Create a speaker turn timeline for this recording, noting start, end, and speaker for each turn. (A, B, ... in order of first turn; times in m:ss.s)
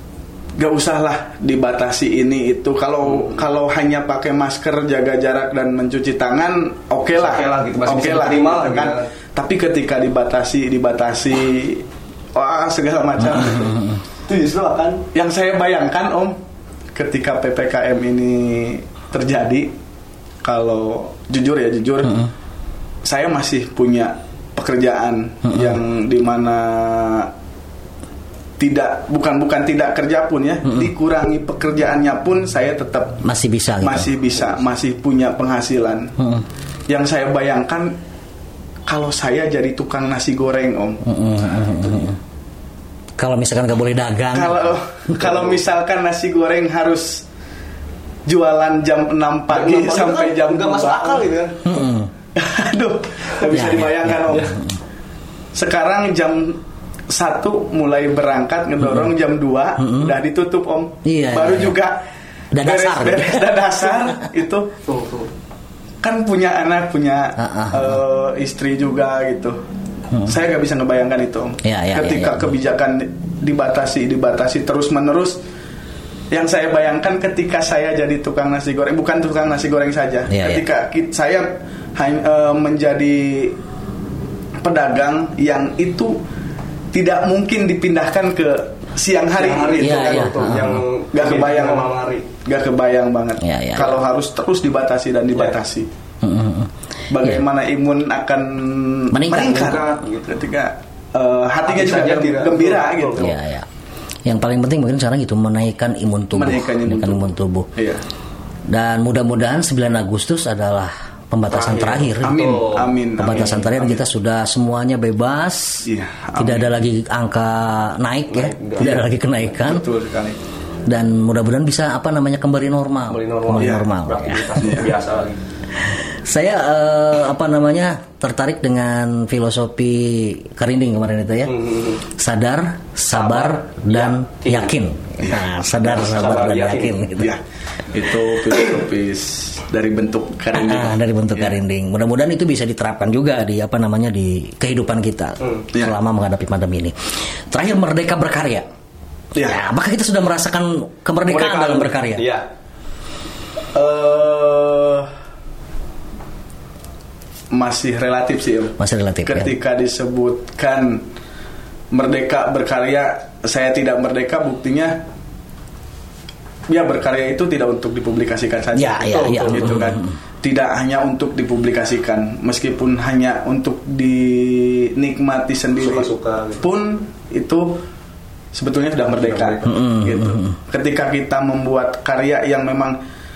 0:00.6-0:13.8 A
0:07.1-0:09.1 B
0:13.3-0:14.0 C
0:14.3-0:15.0 B
0:15.1-0:16.4 A
0:16.9-0:19.7 A
0:20.4-0:22.2 A
0:23.0-0:27.3 A
0:25.4-0:25.8 C
0:28.6-0:33.2 A
0:30.6-0:30.9 C
0:33.2-0:34.1 C
0:33.8-0:36.1 A
0:36.2-0:36.4 C
0:36.9-0:38.0 A
0:38.8-0:41.0 A
0:41.0-0:42.2 C
0:43.2-0:44.8 C
0:44.3-0:47.2 A
0:48.2-0:51.3 A
0:49.5-0:51.5 B
0:51.6-0:52.1 C
0:52.3-0:54.6 A
0:53.5-0:54.7 C
0:55.5-1:02.0 A
0:59.8-1:00.1 C
1:01.0-1:01.8 C
1:02.5-1:04.2 C
1:02.6-1:04.8 A
1:04.9-1:05.2 B
1:06.0-1:09.6 A
1:07.4-1:08.0 C
1:10.2-1:15.4 A
1:11.6-1:12.5 C
1:16.3-1:23.6 A
1:20.3-1:20.6 C
1:24.6-1:26.2 A
1:26.9-1:30.2 A
1:29.3-1:32.3 B
1:29.8-1:30.8 C
1:31.1-1:35.9 A
1:33.4-1:34.0 C
1:36.2-1:36.7 C
1:37.1-1:43.3 A
1:39.1-1:39.8 C
1:39.5-1:40.0 B
1:41.7-1:43.3 B
1:43.2-1:43.6 C
1:44.2-1:47.7 C
1:46.3-1:48.0 A
1:48.7-1:52.4 C
1:51.5-1:54.0 A
1:52.2-1:53.6 B
1:53.2-1:55.8 C
1:55.8-1:56.7 A
1:56.4-1:59.8 C
1:58.3-1:59.0 B
1:58.8-2:00.4 A
2:00.8-2:04.8 C
2:03.1-2:05.4 B
2:03.6-2:03.9 A
2:04.6-2:04.9 A
2:05.9-2:17.4 C
2:11.5-2:12.0 B
2:13.1-2:14.7 B
2:15.2-2:16.1 A
2:15.8-2:17.0 B
2:17.2-2:21.5 A
2:20.5-2:26.9 C
2:27.5-2:28.6 C
2:29.3-2:29.6 A
2:29.4-2:32.3 C
2:31.3-2:32.0 A
2:32.1-2:32.4 B
2:33.7-2:35.1 A
2:37.5-2:41.0 A
2:38.8-2:39.5 C
2:41.9-2:45.0 A
2:46.7-2:57.8 A
2:48.7-2:50.1 C
2:49.0-2:49.8 B
2:55.8-2:56.6 B
2:58.5-3:03.0 A
2:59.1-2:59.7 B
2:59.6-3:00.6 C